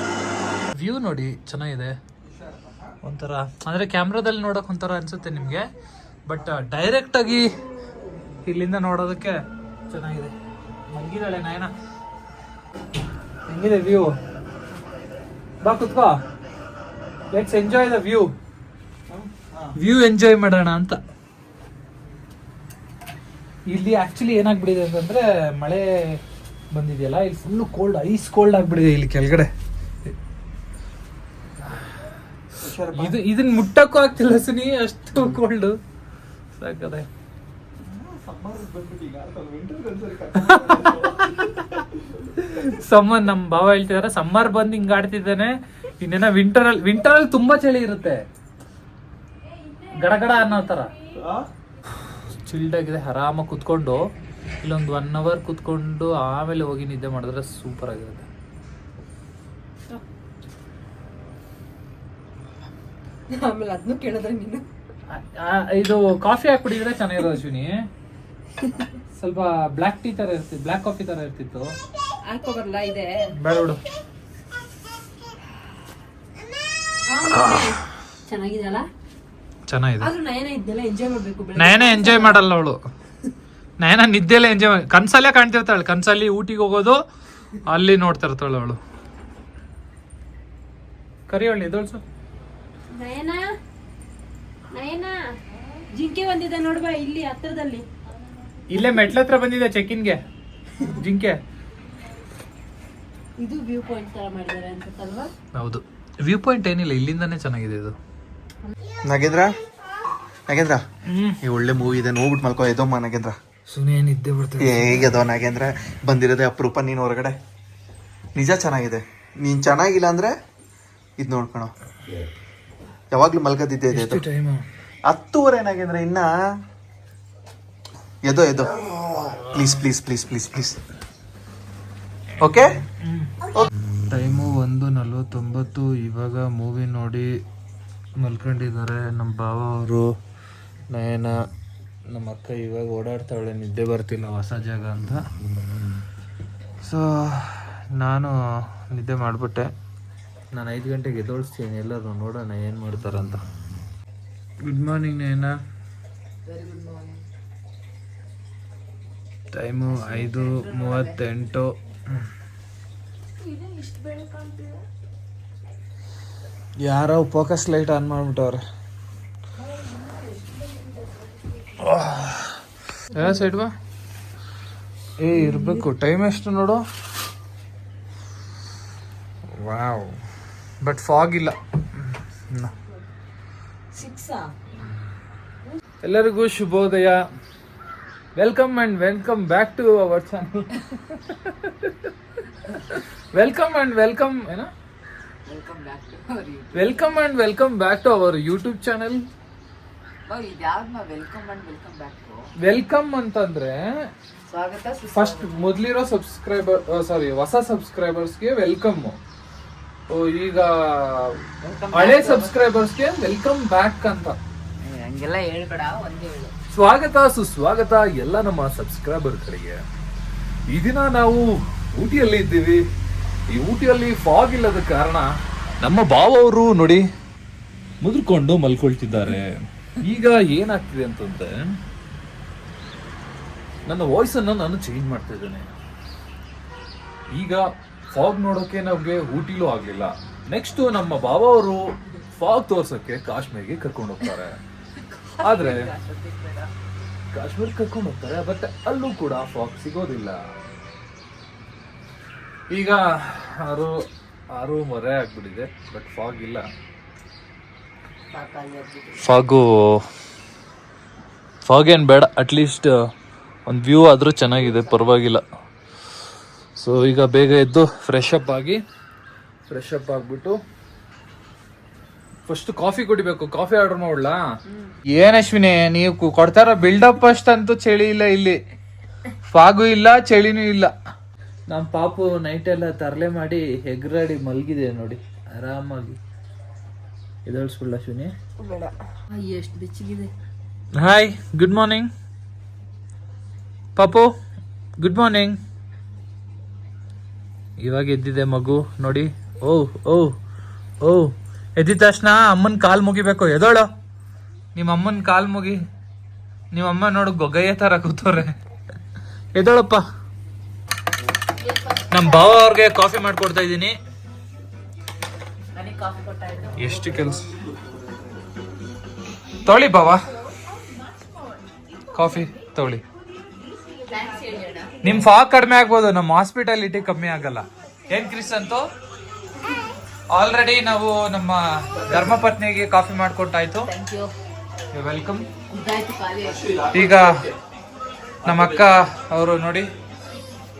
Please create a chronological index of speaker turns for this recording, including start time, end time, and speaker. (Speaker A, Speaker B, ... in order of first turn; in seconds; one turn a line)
Speaker A: 0.7-2.0
Speaker B: 2.2-3.0
Speaker A: 3.0-5.7
Speaker A: 6.3-7.5
Speaker A: 8.4-10.3
Speaker A: 10.9-11.7
Speaker A: 13.5-14.1
Speaker A: 15.6-16.2
Speaker A: 17.3-18.3
Speaker B: 19.1-19.7
Speaker A: 19.8-21.0
Speaker A: 23.7-26.2
Speaker A: 26.7-29.5
Speaker A: 31.6-31.9
Speaker B: 32.6-33.2
Speaker A: 32.9-35.8
Speaker A: 36.5-37.1
Speaker B: 37.8-42.1
Speaker A: 40.4-41.0
Speaker A: 42.3-48.2
Speaker A: 49.9-50.9
Speaker B: 51.2-51.4
Speaker A: 52.3-54.0
Speaker A: 54.6-58.3
Speaker C: 63.3-64.7
Speaker A: 65.1-67.8
Speaker A: 69.0-71.7
Speaker C: 72.3-73.2
Speaker A: 73.3-73.8
Speaker C: 77.1-78.8
Speaker A: 77.3-77.7
Speaker A: 79.7-80.1
Speaker C: 80.0-82.4
Speaker A: 81.5-82.8
Speaker A: 83.8-87.0
Speaker A: 87.7-88.8
Speaker A: 91.3-92.0
Speaker C: 92.9-93.5
Speaker C: 94.7-95.2
Speaker C: 95.9-97.8
Speaker A: 98.7-100.2
Speaker A: 100.8-101.4
Speaker C: 103.4-105.3
Speaker A: 105.5-107.9
Speaker B: 109.0-109.5
Speaker B: 110.5-110.8
Speaker A: 111.0-111.4
Speaker B: 111.4-113.3
Speaker A: 113.7-115.2
Speaker B: 114.6-117.3
Speaker B: 118.3-120.3
Speaker B: 121.2-121.7
Speaker B: 123.1-124.2
Speaker A: 123.9-124.7
Speaker B: 125.1-126.3
Speaker B: 128.2-128.8
Speaker A: 128.8-129.8
Speaker B: 129.4-130.8
Speaker A: 132.4-137.3
Speaker B: 132.4-132.7
Speaker A: 138.2-140.1
Speaker A: 140.9-141.3
Speaker A: 142.1-145.2
Speaker A: 146.8-149.7
Speaker A: 150.5-153.4
Speaker A: 154.6-155.5
Speaker D: 156.5-157.2
Speaker A: 159.5-162.2
Speaker D: 159.8-161.2
Speaker D: 163.4-164.7
Speaker C: 163.8-164.6
Speaker A: 166.8-168.6
Speaker C: 170.3-171.1
Speaker A: 171.8-172.6
Speaker A: 173.1-173.7
Speaker A: 175.2-176.8
Speaker C: 175.4-175.8
Speaker A: 179.5-180.2
Speaker A: 180.8-182.7
Speaker D: 183.9-184.5
Speaker A: 186.0-187.2
Speaker A: 188.3-192.1
Speaker A: 192.6-194.7
Speaker D: 195.4-197.0
Speaker A: 196.7-199.2
Speaker D: 200.3-202.5
Speaker A: 202.6-204.1
Speaker D: 204.5-205.5
Speaker A: 205.1-209.2
Speaker A: 210.1-214.4
Speaker D: 211.6-212.5
Speaker D: 214.8-216.5
Speaker A: 216.7-219.8
Speaker A: 220.7-222.8
Speaker A: 223.5-225.3
Speaker A: 225.8-227.0
Speaker A: 228.0-231.5
Speaker A: 233.8-235.7
Speaker A: 237.3-244.6
Speaker D: 245.3-246.7
Speaker A: 245.4-245.9
Speaker A: 247.3-250.4
Speaker A: 252.7-253.9
Speaker A: 254.5-256.6
Speaker D: 258.3-259.3
Speaker A: 259.2-260.0
Speaker A: 261.6-262.9
Speaker A: 263.7-265.4
Speaker D: 264.5-264.9
Speaker A: 266.8-268.8
Speaker A: 269.7-270.6
Speaker A: 272.4-274.4
Speaker D: 274.7-274.9
Speaker A: 275.1-278.6
Speaker A: 279.4-280.9
Speaker A: 281.7-286.2
Speaker A: 287.4-288.3
Speaker C: 288.6-290.3
Speaker A: 290.9-292.1
Speaker A: 293.9-294.3
Speaker A: 295.0-295.6
Speaker A: 297.8-300.3
Speaker A: 301.0-303.9
Speaker A: 304.7-305.8
Speaker A: 306.7-308.5
Speaker A: 309.5-310.0
Speaker D: 311.6-312.5
Speaker A: 312.1-313.9
Speaker D: 315.7-317.3
Speaker A: 316.8-317.4
Speaker B: 317.4-318.2
Speaker A: 319.6-320.3
Speaker A: 322.1-323.0
Speaker D: 324.1-325.0
Speaker A: 325.0-328.8
Speaker A: 330.3-333.9
Speaker B: 332.0-332.4
Speaker D: 333.8-334.3
Speaker A: 334.9-335.4
Speaker D: 335.7-336.9
Speaker B: 336.4-337.5
Speaker A: 336.9-337.3
Speaker A: 338.4-339.9
Speaker B: 338.4-338.9